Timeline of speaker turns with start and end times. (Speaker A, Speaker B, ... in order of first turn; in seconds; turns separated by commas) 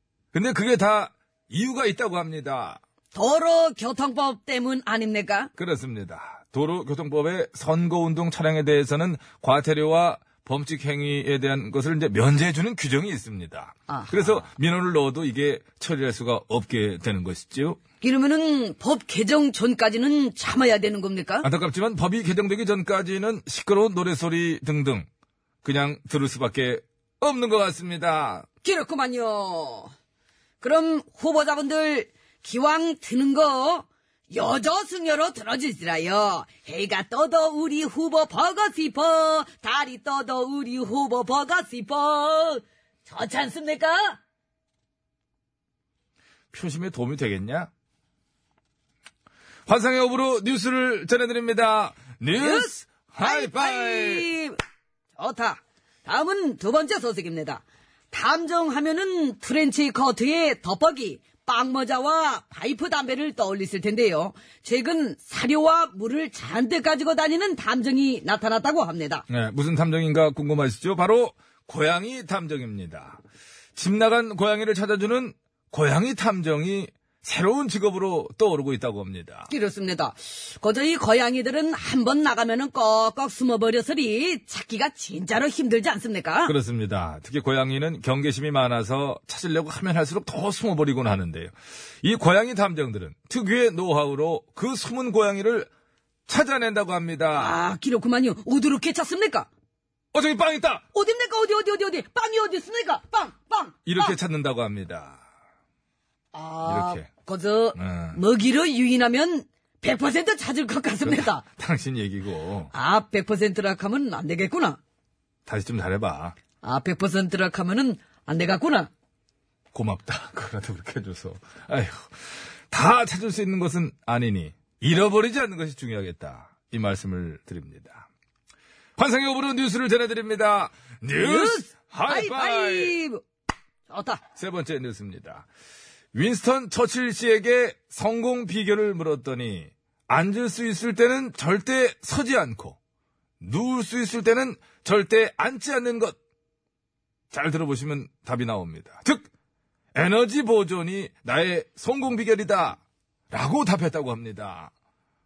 Speaker A: 0.3-2.8, Speaker B: 3.1-5.5, Speaker A: 5.6-17.8, Speaker B: 13.9-14.4, Speaker B: 18.0-21.5, Speaker A: 21.4-25.1, Speaker A: 25.6-28.4, Speaker B: 28.6-29.9, Speaker B: 30.6-44.2, Speaker A: 46.5-47.7, Speaker A: 49.7-54.2, Speaker B: 52.3-54.6, Speaker B: 55.2-69.2, Speaker A: 69.3-73.2, Speaker A: 73.8-79.5, Speaker B: 79.5-86.5, Speaker A: 86.5-95.7, Speaker A: 96.3-97.6, Speaker B: 97.3-99.5, Speaker A: 100.1-100.8, Speaker B: 100.9-104.2, Speaker A: 103.8-105.2, Speaker B: 106.3-111.4, Speaker A: 106.6-107.1, Speaker A: 107.8-108.2, Speaker A: 111.0-112.7, Speaker B: 112.7-114.8, Speaker A: 115.5-116.3, Speaker B: 116.6-118.9, Speaker A: 119.7-128.1, Speaker A: 129.0-133.0, Speaker B: 131.2-133.2, Speaker B: 133.9-134.2, Speaker A: 134.3-135.5, Speaker A: 136.1-142.8, Speaker A: 143.4-146.2, Speaker A: 147.3-149.2, Speaker A: 149.9-154.7